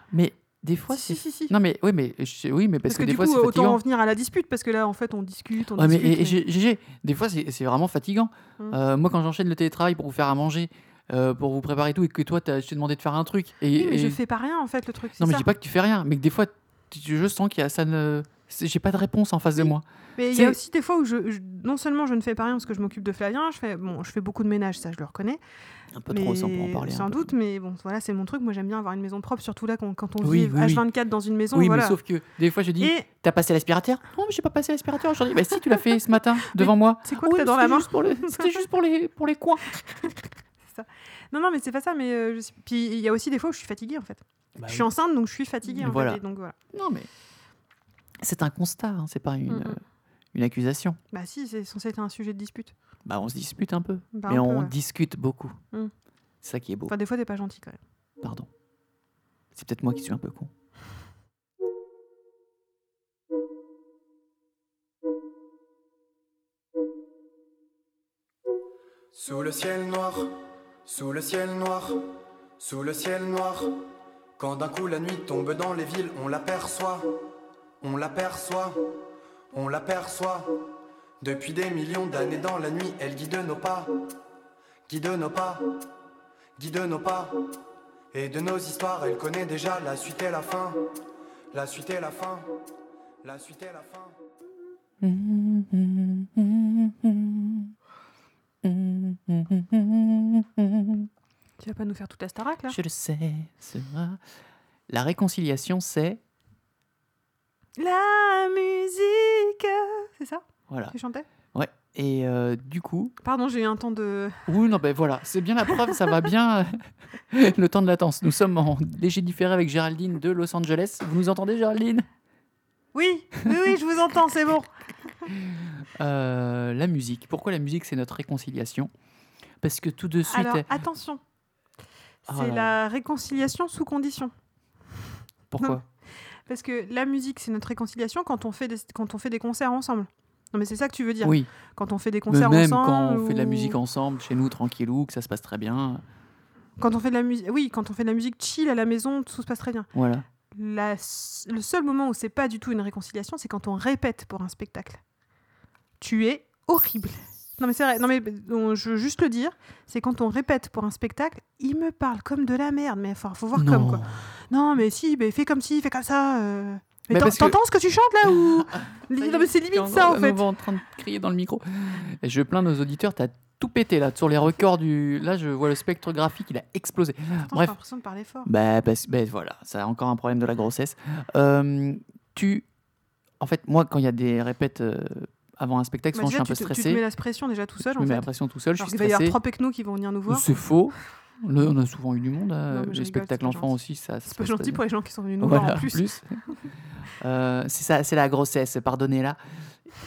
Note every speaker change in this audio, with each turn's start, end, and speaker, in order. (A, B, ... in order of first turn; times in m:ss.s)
0:00.1-0:03.8 A
0:00.9-0:01.5 B
0:02.9-0:06.4 B
0:05.8-0:14.2 A
0:13.8-0:15.5 B
0:15.2-0:20.6 A
0:19.6-0:25.4 B
0:25.9-0:27.3 A
0:26.1-0:32.0 B
0:30.2-0:30.8 A
0:31.5-0:39.7 A
0:32.8-0:33.0 B
0:36.5-0:38.6 B
0:40.6-0:46.5 B
0:44.6-0:44.9 A
0:45.7-0:46.2 A
0:46.7-0:47.1 A
0:48.2-0:49.8 A
0:49.5-0:49.8 B
0:50.3-0:51.0 A
0:51.1-0:52.7 B
0:53.0-0:55.6 A
0:54.1-0:54.7 B
0:56.4-0:56.9 A
0:56.9-0:57.8 B
0:58.2-0:58.5 A
0:59.5-1:00.5 A
1:09.1-1:13.8 C
1:14.4-1:17.1 C
1:17.8-1:18.8 C
1:19.5-1:20.6 C
1:21.2-1:24.0 C
1:24.9-1:25.7 C
1:26.6-1:27.4 C
1:28.1-1:30.8 C
1:31.5-1:32.5 C
1:33.2-1:34.1 C
1:35.0-1:37.7 A
1:38.6-1:41.1 A
1:41.6-1:42.8 B
1:42.7-1:44.2 A
1:44.9-1:46.2 A
1:47.8-1:51.3 B
1:50.7-1:50.9 A
1:51.5-1:53.2 A
1:53.2-1:54.5 B
1:54.5-2:02.1 A
2:02.9-2:04.7 B
2:05.3-2:08.9 A
2:09.6-2:10.7 A
2:10.2-2:11.2 B
2:12.2-2:14.3 B
2:12.3-2:12.8 A
2:15.5-2:15.8 A
2:16.4-2:23.8 B
2:21.2-2:21.5 A
2:22.3-2:26.0 A
2:26.8-2:29.9 B
2:29.9-2:30.2 A
2:30.5-2:35.0 B
2:36.0-2:50.4 B
2:43.5-2:44.2 A
2:47.1-2:47.6 A
2:48.7-2:57.7 A
2:57.5-2:58.5 B
2:58.4-3:02.6 A
3:03.4-3:07.0 A
3:06.1-3:10.4 B
3:07.8-3:09.4 A
3:10.3-3:14.8 A
3:12.7-3:16.1 B
3:15.4-3:16.4 A
3:17.2-3:19.4 A